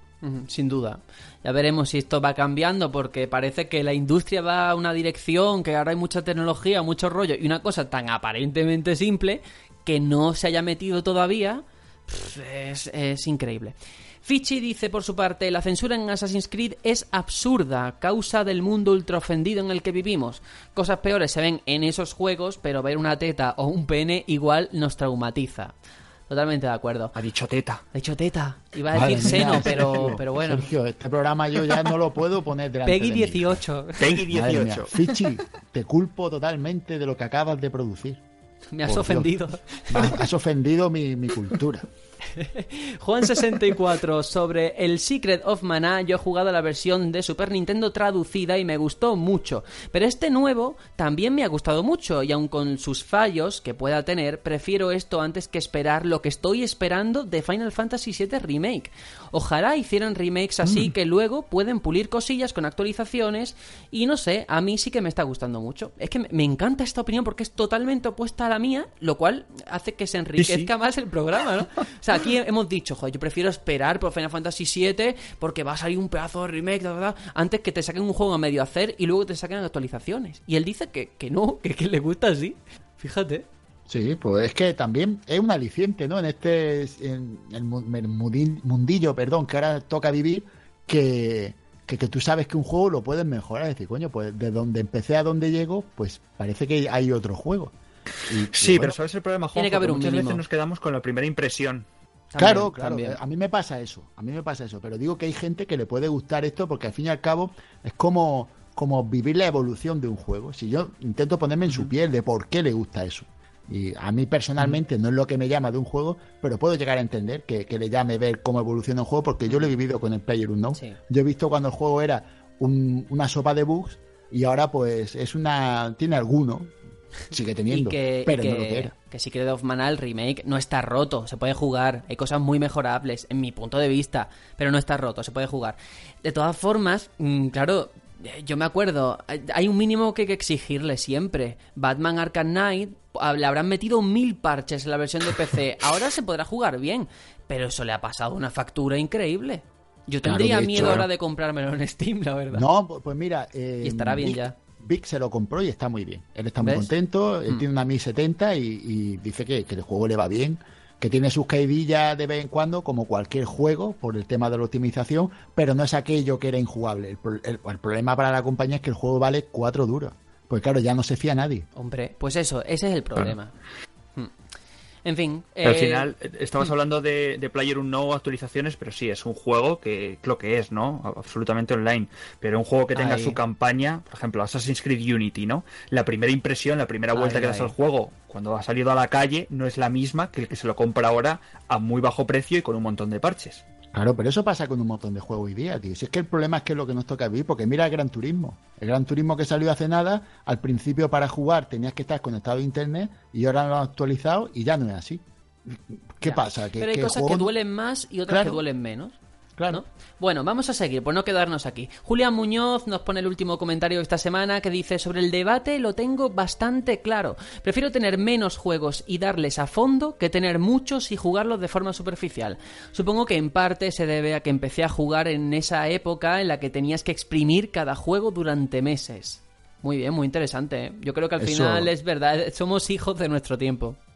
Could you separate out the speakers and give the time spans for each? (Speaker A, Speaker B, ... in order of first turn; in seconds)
Speaker A: 0.2-25.7, 26.3-27.1, 27.9-30.7, 32.9-34.1, 38.7-40.2, 42.3-83.5, 99.6-100.4, 102.3-103.2, 127.7-152.7, 153.8-154.6, 156.6-156.9, 171.8-173.6, 175.1-176.1, 182.9-183.4, 187.1-187.7, 206.2-209.2, 209.7-234.0
Speaker B: 27.1-27.8, 34.0-35.3, 70.4-70.7, 98.5-101.9, 175.6-193.6
Speaker C: 28.9-38.2, 38.9-41.9, 83.9-97.7, 98.3-99.0, 102.4-126.7, 127.3-128.9, 150.2-151.1, 152.5-171.7, 193.9-207.5, 208.3-208.6, 209.6-209.8, 231.4-231.9